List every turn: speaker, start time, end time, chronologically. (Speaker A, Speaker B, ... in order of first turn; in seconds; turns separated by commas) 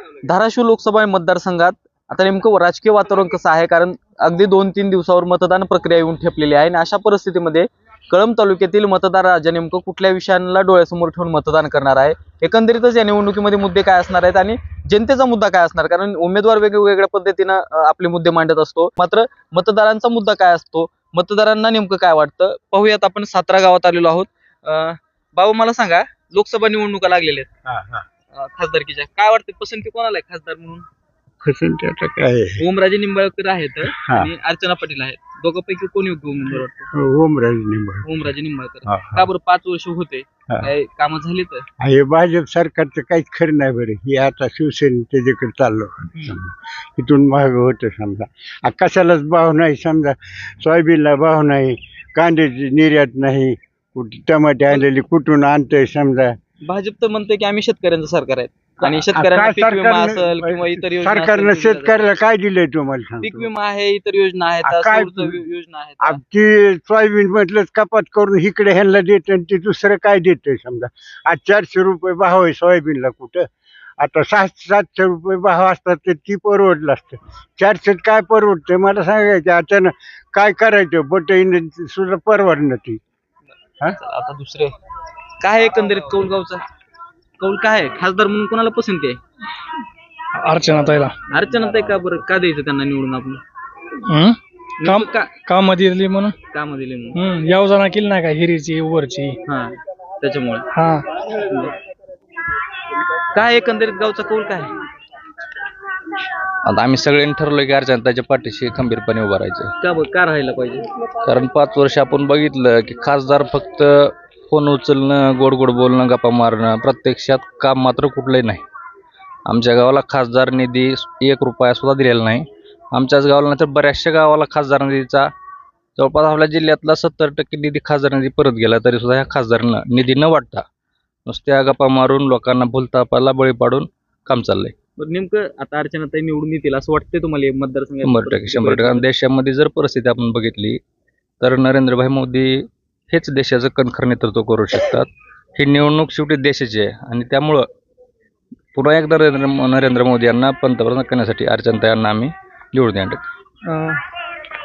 Speaker A: 0.2-27.5, Speaker B: 27.7-28.0, Speaker A: 28.3-30.9, Speaker B: 31.4-32.6, Speaker A: 32.6-36.9, Speaker B: 33.9-34.3, Speaker B: 36.9-38.1, Speaker A: 38.0-41.7, Speaker B: 38.9-39.3, Speaker B: 41.8-56.4, Speaker A: 56.6-62.1, Speaker B: 58.8-63.5, Speaker A: 63.2-66.2, Speaker B: 64.6-65.4, Speaker B: 66.0-73.5, Speaker B: 74.0-83.0, Speaker A: 83.9-84.8, Speaker A: 85.4-86.6, Speaker A: 87.4-89.2, Speaker C: 90.4-91.2, Speaker A: 91.3-93.4, Speaker C: 94.1-96.4, Speaker A: 94.8-95.3, Speaker A: 96.5-97.2, Speaker C: 97.1-99.4, Speaker A: 99.5-100.7, Speaker C: 100.7-101.0, Speaker A: 101.5-101.7, Speaker A: 103.3-104.7, Speaker D: 106.7-109.7, Speaker A: 109.8-110.8, Speaker D: 111.2-118.6, Speaker D: 119.5-125.3, Speaker D: 126.0-130.7, Speaker D: 131.3-134.7, Speaker A: 135.0-139.0, Speaker D: 138.0-140.8, Speaker D: 141.4-147.7, Speaker D: 148.8-153.2, Speaker A: 153.7-154.0